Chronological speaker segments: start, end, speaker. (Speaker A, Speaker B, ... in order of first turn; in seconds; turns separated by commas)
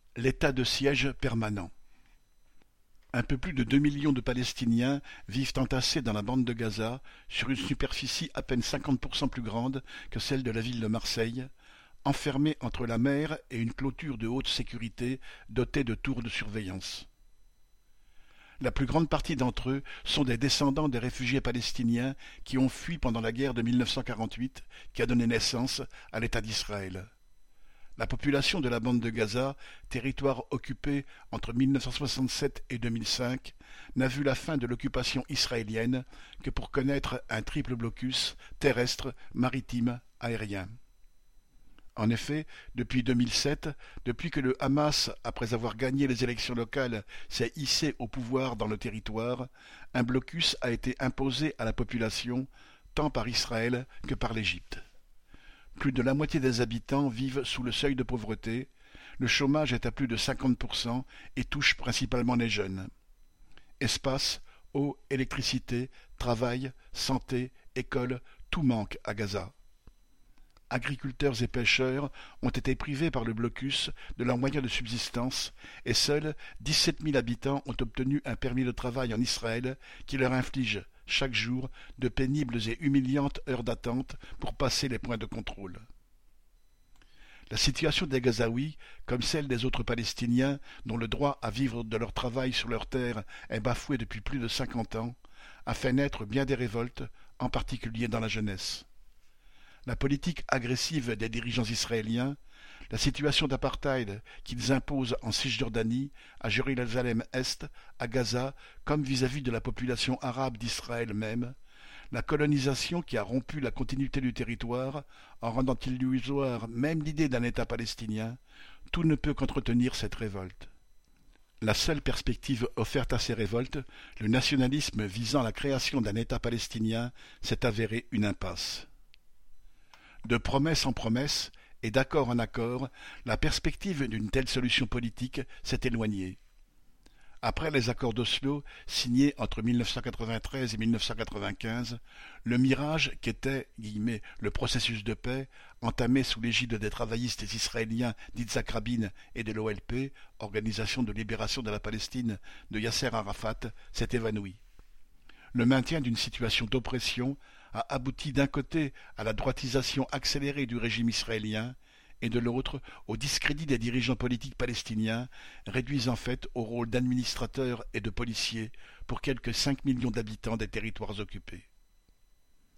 Speaker A: 0.2-1.7, Speaker A: 3.1-11.5, Speaker A: 12.1-17.1, Speaker A: 18.6-27.1, Speaker A: 28.0-40.7, Speaker A: 42.0-54.8, Speaker A: 55.8-62.9, Speaker A: 63.8-69.5, Speaker A: 70.7-85.8, Speaker A: 87.5-98.9, Speaker A: 99.9-102.4, Speaker A: 102.9-111.6, Speaker A: 112.1-118.4, Speaker A: 118.9-120.7, Speaker A: 121.6-128.9, Speaker A: 130.2-136.4, Speaker A: 137.4-154.6, Speaker A: 155.5-171.7